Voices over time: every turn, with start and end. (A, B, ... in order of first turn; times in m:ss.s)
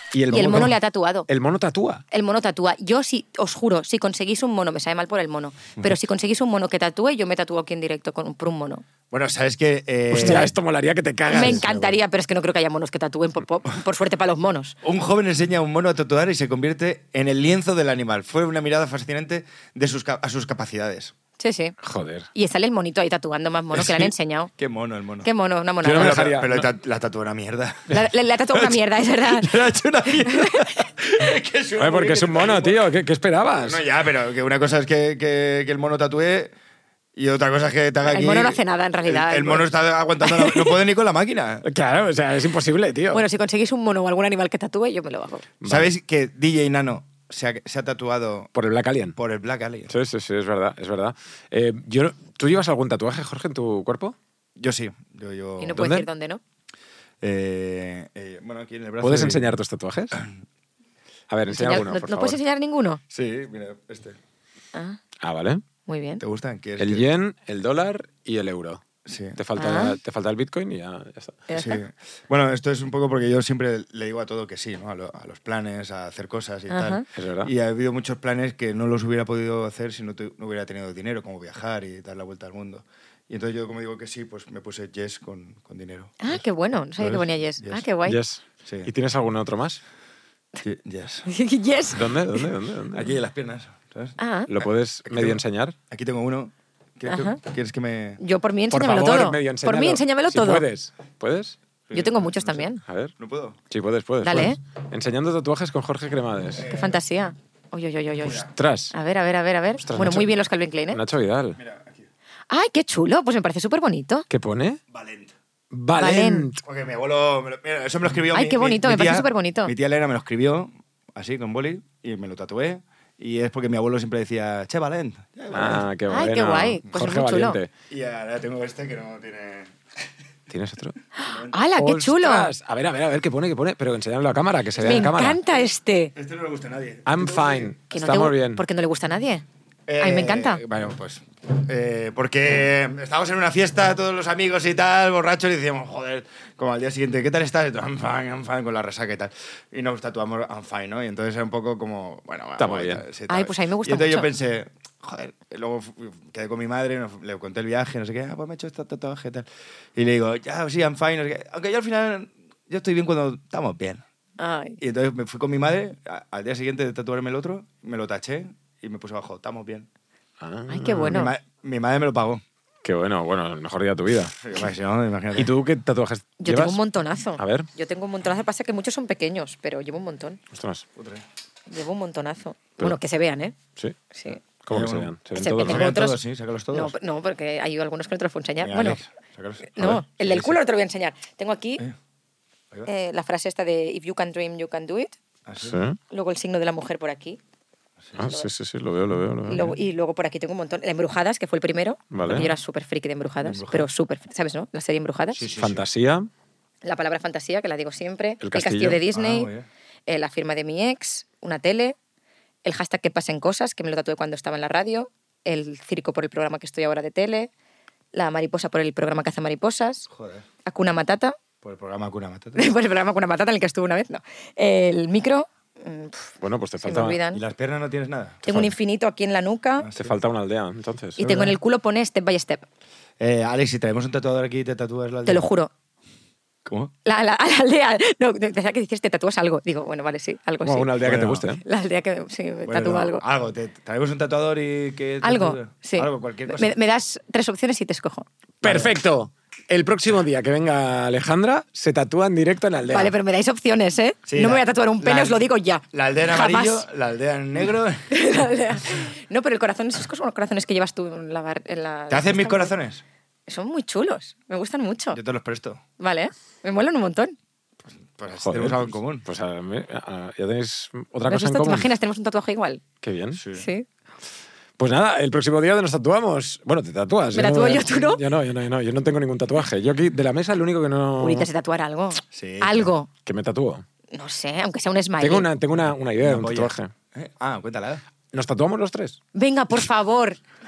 0:00.1-0:00.7 A
0:00.3-0:01.3 B
0:01.3-0:02.0 A
0:02.1-0:08.8 B
0:09.1-0:10.5 C
0:10.1-0:11.9 A
0:11.3-0:11.7 C
0:11.3-0:14.8 B
0:14.8-0:21.1 C
0:21.4-0:21.7 B
0:21.8-0:22.3 A
0:22.3-0:24.5 B
0:23.7-0:25.3 C
0:25.2-0:26.3 B
0:25.8-0:26.7 A
0:25.9-0:28.0 C
0:27.9-0:29.6 B
0:28.5-0:32.8 C
0:30.2-0:30.7 B
0:31.8-0:33.8 A
0:33.6-0:36.5 C
0:37.2-0:41.6 C
0:38.0-0:39.7 B
0:40.2-0:40.8 B
0:41.6-0:43.2 A
0:43.1-0:45.4 B
0:45.6-0:45.9 A
0:45.6-0:48.5 C
0:48.5-0:49.2 A
0:49.1-0:49.9 C
0:49.9-0:54.2 A
0:54.6-0:55.9 C
0:55.6-0:56.4 B
0:55.8-0:56.1 A
0:57.2-0:59.5 C
0:59.0-1:00.2 A
1:01.3-1:02.4 A
1:01.5-1:03.0 B
1:03.1-1:04.2 C
1:04.7-1:05.0 B
1:05.2-1:05.6 A
1:05.8-1:06.2 B
1:06.2-1:07.1 C
1:06.8-1:08.8 A
1:09.0-1:09.4 C
1:09.4-1:11.4 A
1:09.6-1:10.0 B
1:11.5-1:11.8 B
1:11.5-1:26.4 C
1:16.7-1:17.0 B
1:17.1-1:17.5 A
1:26.2-1:28.2 B
1:27.0-1:27.8 C
1:28.0-1:29.8 A
1:28.6-1:28.9 C
1:30.6-1:31.3 C
1:31.3-1:32.4 B
1:31.9-1:33.1 A
1:32.9-1:38.2 C
1:34.2-1:34.5 B
1:34.5-1:35.8 A
1:37.0-1:37.4 B
1:38.2-1:40.6 B
1:38.7-1:41.6 A
1:41.9-1:42.6 C
1:41.9-1:42.8 B
1:42.8-1:43.1 A
1:43.2-1:43.6 C
1:43.7-1:46.6 A
1:44.2-1:44.6 B
1:46.6-1:47.0 C
1:46.6-1:51.0 B
1:48.4-1:48.9 A
1:49.8-1:50.3 A
1:50.9-1:51.6 A
1:51.6-1:52.1 C
1:52.5-1:54.2 B
1:54.3-1:54.8 A
1:54.9-1:55.3 C
1:55.7-1:56.6 A
1:56.0-1:56.5 B
1:56.6-2:05.8 C
1:58.3-1:59.7 B
2:05.5-2:07.7 A
2:06.1-2:07.6 B
2:07.9-2:09.7 C
2:10.5-2:10.9 A
2:11.2-2:12.5 B
2:11.2-2:11.6 C
2:11.8-2:15.4 A
2:14.8-2:15.1 C
2:14.8-2:16.1 B
2:16.1-2:17.7 C
2:17.0-2:18.6 A
2:17.9-2:19.4 B
2:19.9-2:44.0 C
2:20.0-2:20.6 B
2:32.6-2:33.0 A
2:33.3-2:34.3 B
2:44.4-2:44.8 B
2:44.8-2:49.9 C
2:50.4-2:51.2 A
2:50.7-2:51.3 B
2:51.1-2:52.4 C
2:52.8-2:54.4 A
2:54.4-2:55.5 C
2:55.3-2:56.8 A
2:56.4-3:00.4 B
2:57.4-2:57.7 A
3:00.5-3:00.8 A
3:01.0-3:01.2 C
3:01.7-3:03.6 B
3:04.1-3:04.4 B
3:04.6-3:06.0 A
3:04.7-3:05.1 C
3:05.4-3:06.2 B
3:05.6-3:06.9 C
3:06.7-3:09.0 B
3:08.6-3:10.6 C
3:09.8-3:11.8 B
3:12.8-3:15.2 B
3:15.4-3:15.8 C
3:15.6-3:16.0 A
3:16.1-3:17.4 B
3:18.2-3:19.7 A
3:18.2-3:18.5 B
3:19.5-3:25.4 B
3:22.1-3:22.5 A
3:23.4-3:23.9 C
3:25.3-3:25.8 C
3:25.5-3:26.3 A
3:26.8-3:29.5 B
3:28.4-3:29.0 A
3:29.1-3:29.7 C
3:30.1-3:32.0 B
3:32.6-3:37.5 B
3:38.1-3:40.1 B
3:40.1-3:40.4 C
3:40.6-3:41.4 B
3:41.6-3:42.7 C
3:42.6-3:46.3 B
3:46.4-3:47.2 A
3:46.8-3:47.4 B
3:47.3-3:48.4 C
3:48.4-3:48.7 A
3:48.4-3:49.9 B
3:49.8-3:50.2 C
3:50.0-3:51.4 A
3:51.2-3:52.6 B
3:51.3-3:51.6 C
3:53.2-3:55.4 C
3:55.2-3:55.7 B
3:56.6-3:56.9 C
3:57.0-4:00.9 B
4:00.6-4:01.6 A
4:01.0-4:01.4 C
4:01.6-4:03.2 B
4:02.6-4:06.7 C
4:05.2-4:08.3 B
4:08.6-4:13.1 A
4:08.6-4:08.9 C
4:12.9-4:16.8 B
4:14.3-4:18.0 C
4:18.1-4:22.7 B
4:22.1-4:23.0 C
4:23.5-4:25.2 B
4:25.1-4:25.8 C
4:26.0-4:27.3 B
4:28.0-4:29.2 C
4:28.4-4:31.9 A
4:31.3-4:32.8 B
4:33.0-4:33.4 A
4:33.3-4:33.7 C
4:33.5-4:33.9 B
4:34.8-4:41.5 A
4:37.3-4:38.2 B
4:41.2-4:43.1 B
4:42.3-4:42.9 C
4:43.2-4:43.8 A
4:44.1-4:45.5 B
4:45.2-4:46.9 A
4:46.2-4:48.0 C
4:48.3-4:49.2 A
4:49.3-4:50.4 B